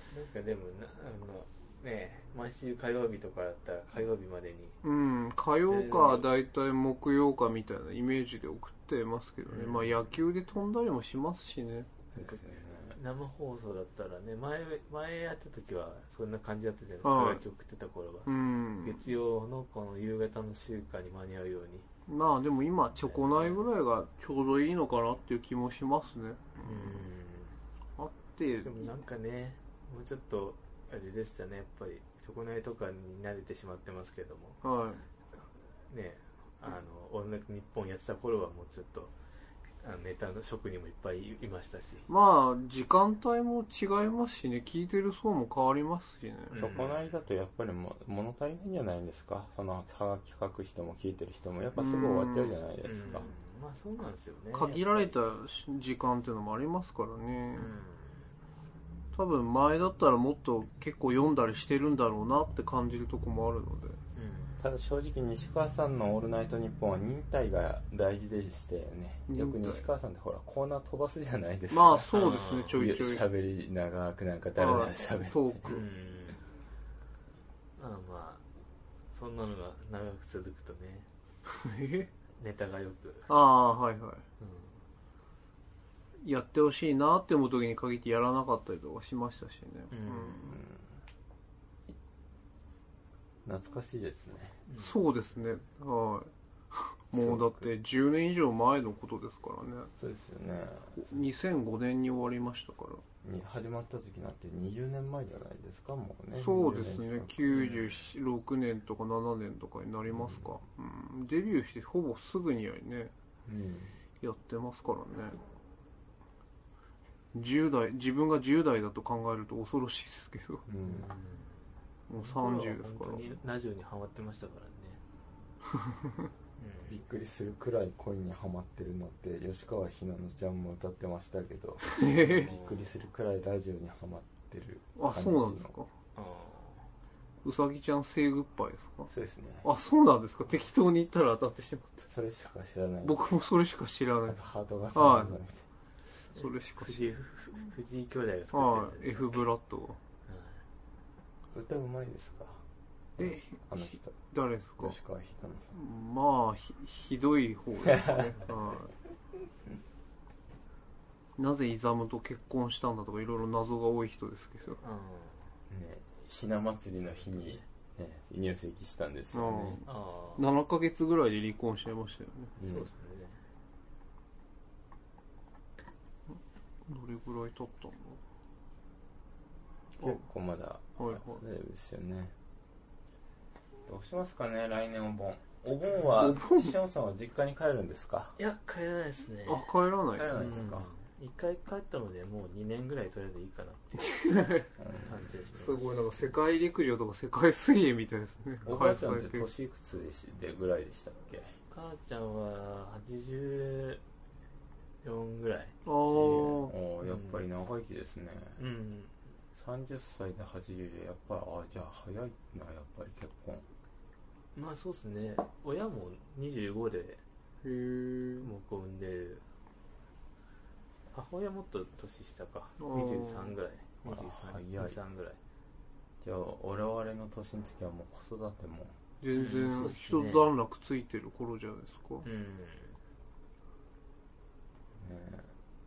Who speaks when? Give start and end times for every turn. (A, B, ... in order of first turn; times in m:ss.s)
0:00.1-0:04.8 A
0:04.8-0:11.9 B
0:05.6-0:06.3 A
0:09.4-0:10.2 A
0:12.1-0:12.4 A
0:12.1-0:13.0 C
0:12.9-0:21.9 A
0:17.0-0:17.4 B
0:18.2-0:19.0 B
0:22.1-0:26.9 B
0:22.9-0:23.6 A
0:26.6-0:27.6 A
0:28.0-0:28.9 B
0:28.6-0:34.6 A
0:34.6-0:35.0 B
0:35.9-0:39.1 A
0:39.8-0:42.1 A
0:42.1-0:46.6 B
0:46.5-0:47.1 A
0:46.5-0:53.3 C
0:51.8-0:52.5 B
0:52.8-0:55.2 A
0:54.5-0:57.7 B
0:57.5-0:58.3 A
0:59.1-1:04.0 B
1:04.1-1:04.6 A
1:04.6-1:12.2 C
1:09.3-1:09.8 B
1:11.7-1:13.3 B
1:12.1-1:12.8 A
1:12.7-1:15.8 C
1:14.6-1:15.8 B
1:15.6-1:16.4 A
1:17.8-1:18.4 A
1:19.1-1:21.1 A
1:21.6-1:22.1 B
1:22.4-1:23.3 A
1:23.3-1:24.2 B
1:24.4-1:24.8 A
1:26.2-1:30.5 B
1:29.9-1:30.5 A
1:30.5-1:31.0 C
1:33.4-1:34.6 C
1:34.7-1:35.0 A
1:34.8-1:39.9 B
1:37.1-1:37.7 C
1:40.0-1:41.2 C
1:41.0-1:43.0 B
1:43.2-1:47.4 C
1:46.3-1:53.1 B
1:47.5-1:48.1 A
1:50.1-1:50.5 C
1:53.4-1:54.0 C
1:54.2-1:55.4 B
1:57.3-2:00.6 B
2:00.7-2:01.1 C
2:00.8-2:05.0 A
2:02.1-2:03.3 B
2:06.6-2:07.0 A
2:06.9-2:15.7 C
2:11.9-2:12.5 B
2:12.2-2:12.9 A
2:15.0-2:15.9 B
2:16.1-2:16.9 A
2:17.4-2:19.1 B
2:19.1-2:19.7 C
2:19.6-2:22.1 B
2:22.1-2:23.2 C
2:23.0-2:24.4 B
2:24.3-2:25.6 C
2:24.9-2:25.4 B
2:26.3-2:27.2 B
2:26.3-2:29.4 A
2:28.5-2:30.0 B
2:30.3-2:30.6 A
2:31.5-2:32.6 C
2:33.2-2:34.2 C
2:33.2-2:35.0 B
2:34.8-2:35.8 C
2:35.7-2:38.9 B
2:38.1-2:38.6 A
2:41.4-2:44.8 B
2:44.8-2:45.5 A
2:45.7-2:49.8 C
2:47.2-2:47.6 A
2:49.3-2:52.5 B
2:49.8-2:50.5 A
2:52.6-2:53.4 A
2:52.6-2:52.9 C
2:56.8-2:58.2 B
3:00.0-3:02.3 C
3:01.0-3:01.4 B
3:03.8-3:08.4 C
3:06.2-3:06.7 B
3:08.4-3:14.4 A
3:09.4-3:10.7 B
3:10.2-3:10.9 C
3:14.2-3:14.6 B
3:14.8-3:15.3 C
3:15.0-3:16.4 A
3:15.5-3:19.5 B
3:18.6-3:21.5 C
3:21.7-3:24.0 A
3:25.0-3:25.8 A
3:25.8-3:26.7 B
3:26.1-3:28.6 C
3:27.0-3:27.4 A
3:28.6-3:29.2 A
3:29.5-3:33.6 C
3:34.5-3:37.2 A
3:37.6-3:38.5 B
3:38.4-3:39.4 A
3:41.1-3:45.4 A
3:42.8-3:43.6 B
3:44.0-3:45.0 C
3:46.2-3:49.0 C
3:49.2-3:52.2 B
3:49.3-3:50.5 A
3:52.2-3:53.0 A
3:55.0-3:55.5 C